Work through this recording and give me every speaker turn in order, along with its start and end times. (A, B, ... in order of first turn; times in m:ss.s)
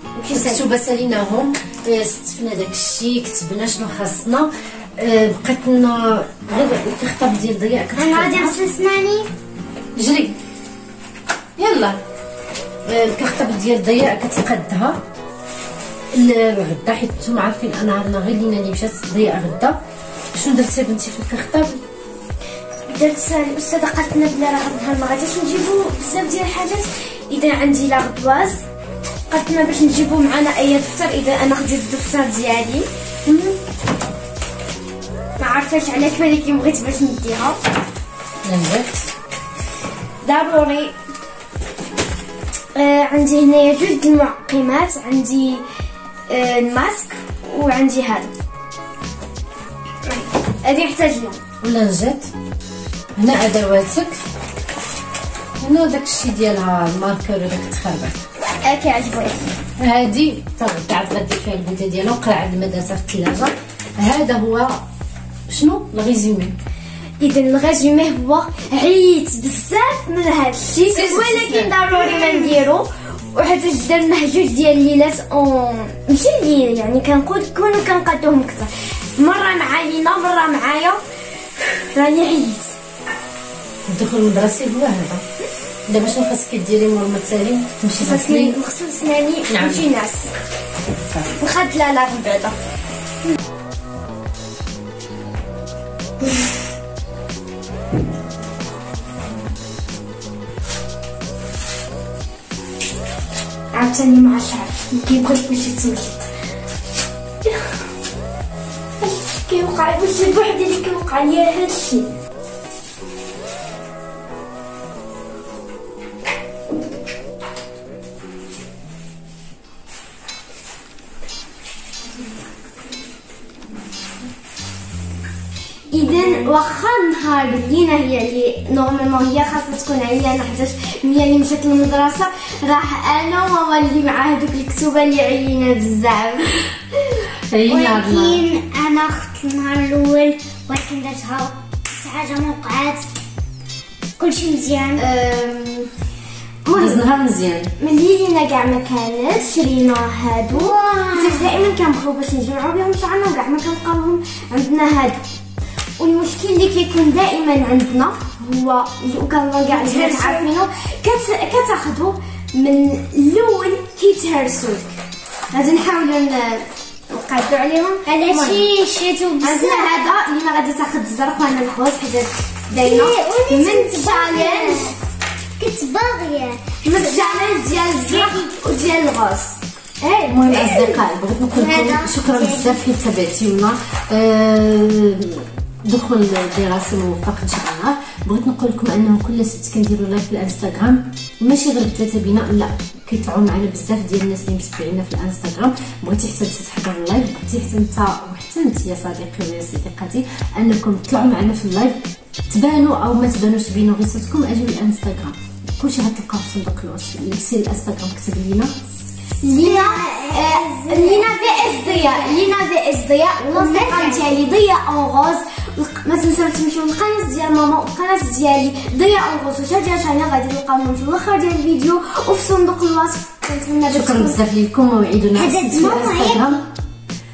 0:00.2-0:00.7 A
0:00.3-0:08.6 B
0:08.0-0:09.3 C
0:10.0-0:10.4 B
0:11.6-0:12.0 B
0:12.9-0:15.0 B
0:16.1-0:19.8 B
0:20.3-0:21.8 B
0:22.9-0:28.6 A
0:29.3-0:32.9 A
0:33.3-0:33.6 B
0:35.4-0:37.6 A
0:38.4-0:39.0 B
0:40.2-0:40.9 A
0:42.8-0:45.6 A
0:46.3-0:48.3 A
0:50.1-0:51.4 A
0:51.6-0:52.3 B
0:53.2-0:54.2 B
0:55.6-0:58.2 B
0:58.6-0:59.5 A
0:59.8-1:04.8 B
1:05.5-1:06.6 B
1:07.2-1:21.0 A
1:10.9-1:11.8 B
1:21.9-1:22.7 A
1:23.9-1:25.2 B
1:25.9-1:28.6 B
1:28.0-1:30.3 A
1:29.5-1:29.9 B
1:31.4-1:32.6 A
1:43.7-1:46.3 A
1:49.0-1:52.1 A
2:05.9-2:16.6 A
2:17.5-2:18.4 B
2:17.7-2:23.1 C
2:24.2-2:25.1 C
2:25.0-2:25.9 A
2:26.7-2:27.0 A
2:26.7-2:27.7 B
2:27.8-2:35.2 A
2:30.5-2:31.7 C
2:36.0-2:44.9 A
2:39.7-2:40.5 C
2:45.5-2:48.6 A
2:48.1-2:50.1 C
2:49.4-2:55.0 A
2:52.7-2:55.0 C
2:55.6-2:58.5 C
2:56.8-3:01.0 A
3:00.3-3:28.7 B
3:01.5-3:02.8 C
3:29.4-3:44.4 A
3:29.6-3:32.6 C
3:33.5-3:34.3 C
3:43.9-3:46.6 B
3:45.4-3:46.6 C